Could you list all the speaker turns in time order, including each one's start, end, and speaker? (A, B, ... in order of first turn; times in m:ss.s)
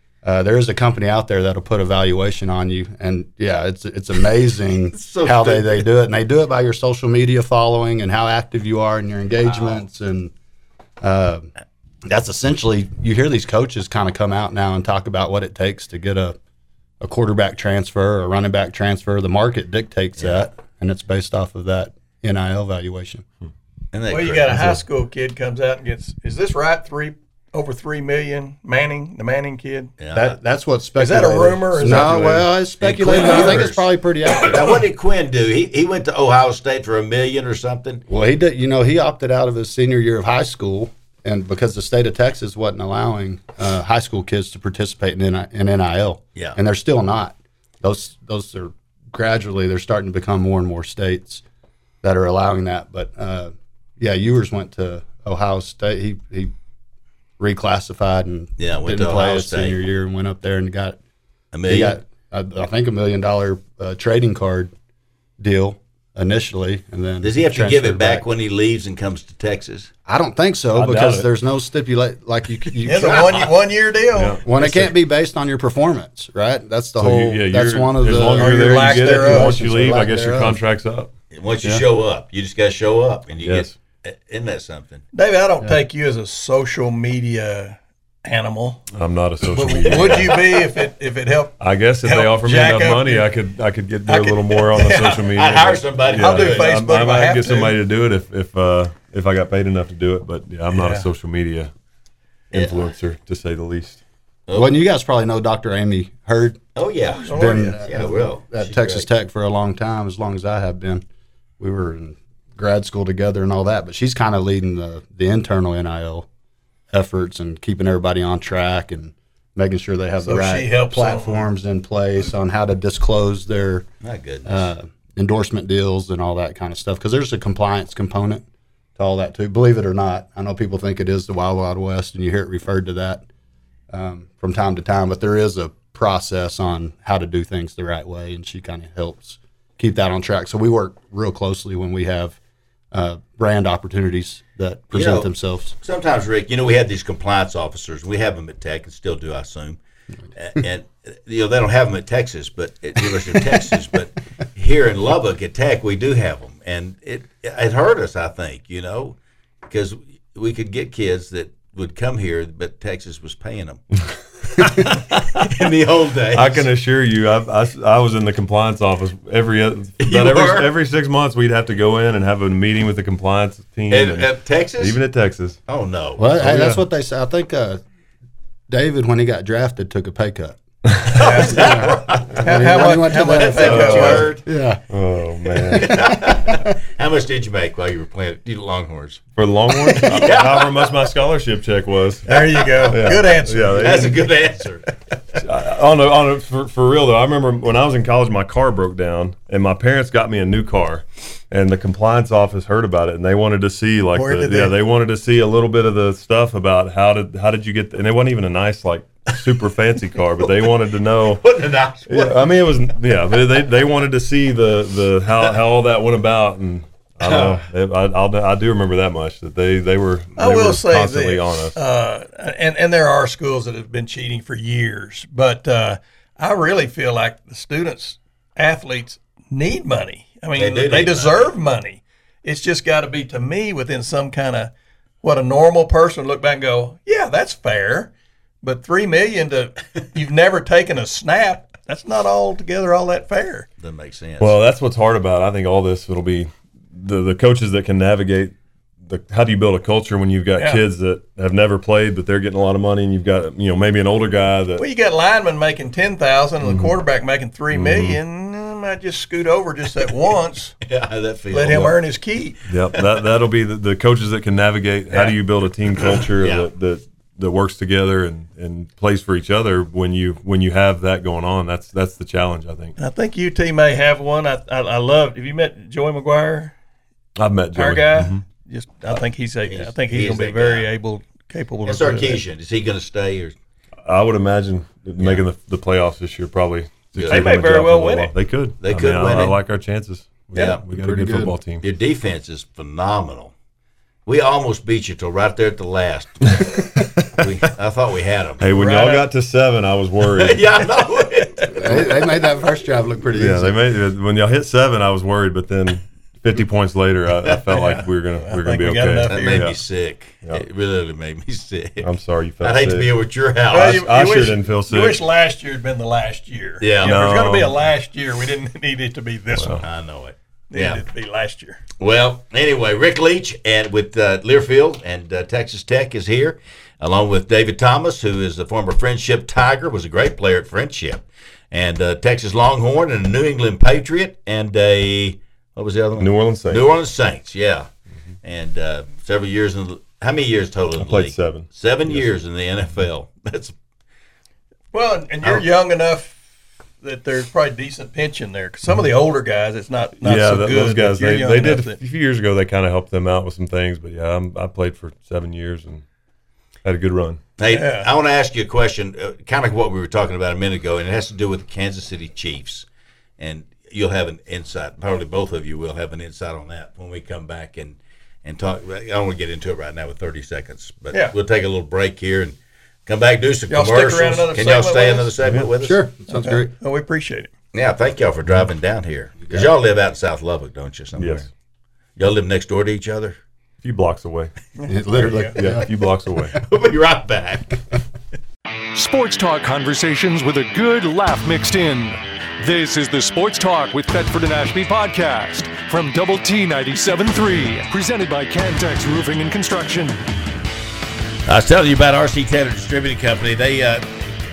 0:00.2-0:10.3 A
0:04.9-0:05.9 B
0:11.0-0:11.5 A
0:12.1-0:16.4 A
0:17.0-0:23.2 A
0:20.2-0:20.4 B
0:23.9-0:24.8 B
0:24.1-0:29.9 C
0:30.0-0:30.3 B
0:30.1-0:34.7 A
0:31.0-0:33.7 C
0:32.8-0:38.0 B
0:38.1-0:51.4 A
0:52.0-0:56.5 A
0:57.4-1:01.0 A
0:58.6-0:59.8 B
1:01.5-1:02.0 B
1:01.7-1:04.7 A
1:05.4-1:08.2 A
1:07.2-1:09.9 B
1:10.1-1:13.4 A
1:10.7-1:11.3 D
1:12.8-1:14.9 C
1:13.1-1:13.4 B
1:14.1-1:14.7 D
1:14.4-1:20.6 A
1:17.0-1:21.1 D
1:18.3-1:19.6 C
1:21.3-1:25.0 B
1:23.4-1:23.7 D
1:25.1-1:28.9 C
1:28.9-1:30.6 D
1:29.5-1:33.3 C
1:31.6-1:41.7 D
1:34.0-1:35.3 C
1:35.3-1:36.7 B
1:36.1-1:37.8 C
1:40.7-1:41.1 C
1:42.5-1:42.9 B
1:42.5-1:44.0 D
1:44.5-1:46.6 A
1:46.7-1:49.1 B
1:47.1-1:47.8 C
1:47.3-1:51.0 A
1:51.6-1:56.2 A
1:56.9-2:03.9 A
2:00.2-2:01.5 C
2:04.0-2:04.6 B
2:04.4-2:08.4 A
2:09.0-2:13.2 A
2:13.9-2:22.4 A
2:22.9-2:25.7 A
2:24.9-2:29.8 B
2:30.4-2:39.2 B
2:33.3-2:33.7 A
2:39.7-2:43.8 B
2:45.4-2:46.7 B
2:46.3-2:55.6 D
2:50.0-2:50.7 B
2:53.9-2:55.0 B
2:55.7-2:56.2 B
2:56.2-2:57.8 A
2:56.4-2:56.8 D
2:58.7-3:00.6 A
3:01.1-3:02.5 B
3:01.1-3:01.8 C
3:01.4-3:04.8 A
3:02.4-3:04.4 C
3:03.1-3:04.4 B
3:03.7-3:04.2 D
3:04.9-3:05.9 D
3:05.7-3:06.7 A
3:05.7-3:09.2 B
3:09.4-3:12.2 D
3:10.0-3:11.0 B
3:12.3-3:14.2 C
3:12.3-3:13.0 B
3:12.9-3:14.1 D
3:13.8-3:14.8 B
3:15.4-3:31.4 D
3:24.1-3:24.8 C
3:31.3-3:32.4 B
3:32.1-3:41.8 D
3:37.2-3:37.6 B
3:40.4-3:58.1 C
3:50.6-3:51.5 B
3:58.6-4:03.7 C
4:03.8-4:04.6 B
4:04.4-4:08.5 D
4:09.0-4:14.8 D
4:10.6-4:10.8 C
4:14.8-4:20.7 C
4:16.6-4:16.9 D
4:17.7-4:18.2 D
4:20.8-4:21.9 B
4:21.5-4:22.6 C
4:22.7-4:33.0 D
4:22.9-4:23.2 B
4:26.4-4:26.7 B
4:33.0-4:36.7 C
4:37.4-4:38.4 D
4:37.7-4:42.4 C
4:39.6-4:40.9 B
4:41.8-4:43.5 B
4:44.0-4:51.8 D
4:45.2-4:45.4 B
4:47.1-4:47.5 B
4:47.3-4:48.3 C
4:48.8-4:49.6 B
4:50.5-4:50.8 B
4:50.9-4:51.6 A
4:51.8-4:53.5 B
4:54.2-4:56.7 B
4:57.4-4:58.6 B
4:58.6-5:00.6 D
4:58.7-4:59.3 C
5:00.3-5:02.1 B
5:01.7-5:03.8 A
5:03.4-5:09.8 D
5:07.7-5:09.7 C
5:09.3-5:12.1 B
5:12.0-5:13.1 D
5:12.6-5:14.0 B
5:13.7-5:19.8 C
5:13.7-5:15.2 D
5:16.8-5:17.2 B
5:17.0-5:17.7 D
5:19.5-5:19.8 D
5:19.8-5:21.0 B
5:20.7-5:21.8 C
5:22.0-5:37.9 B
5:36.2-5:36.9 D
5:38.4-5:43.7 B
5:41.0-5:42.2 D
5:44.9-5:46.4 C
5:47.0-5:52.0 C
5:50.2-5:56.0 D
5:56.8-5:57.4 D
5:57.6-6:02.8 B
5:57.7-5:58.1 C
6:03.4-6:16.0 B
6:11.1-6:11.4 C
6:13.7-6:15.3 C
6:15.4-6:15.7 D
6:15.7-6:16.7 A
6:16.3-6:17.5 C
6:17.7-6:21.5 B
6:21.2-6:21.5 D
6:22.2-6:23.4 B
6:23.8-6:24.5 D
6:24.8-6:25.6 C
6:24.9-6:25.9 A
6:25.6-6:26.6 D
6:26.6-6:27.8 B
6:28.9-6:40.2 E
6:41.5-6:44.1 B